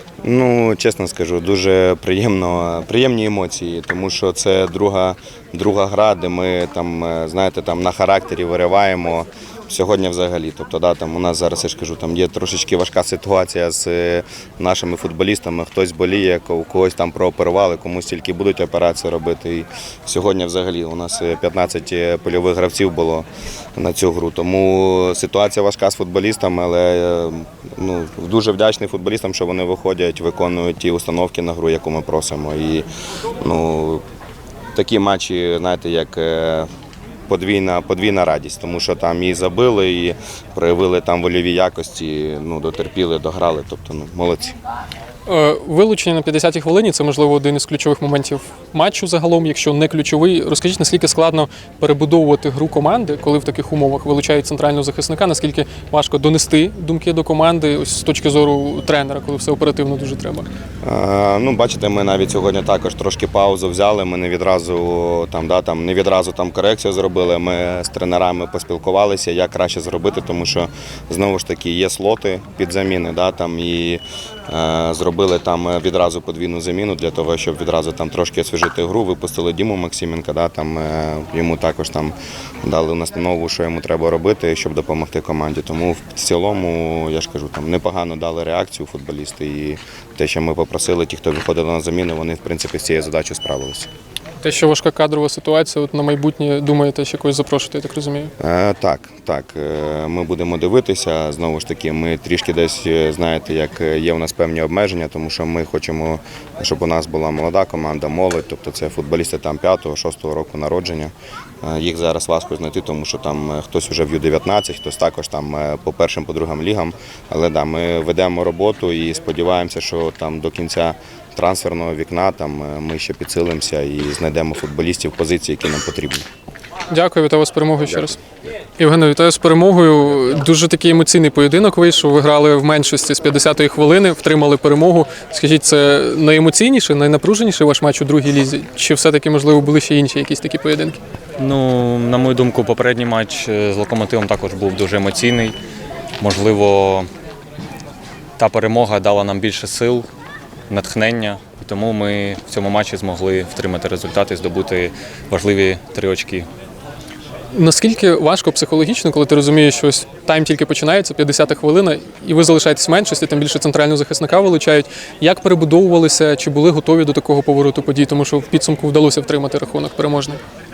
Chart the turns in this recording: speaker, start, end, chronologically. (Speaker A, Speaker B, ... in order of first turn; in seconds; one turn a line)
Speaker A: 0.2-32.9
Speaker A: 33.4-34.0
Speaker A: 34.7-36.7
Speaker A: 37.3-44.5
Speaker B: 45.2-60.5
Speaker A: 60.8-93.9
Speaker B: 94.4-98.3
Speaker A: 98.4-126.2
Speaker B: 126.9-128.2
Speaker B: 128.8-141.0
Speaker C: 141.4-145.6
Speaker C: 146.2-147.1
Speaker C: 148.4-150.1
Speaker C: 150.7-156.5
Speaker B: 157.5-170.4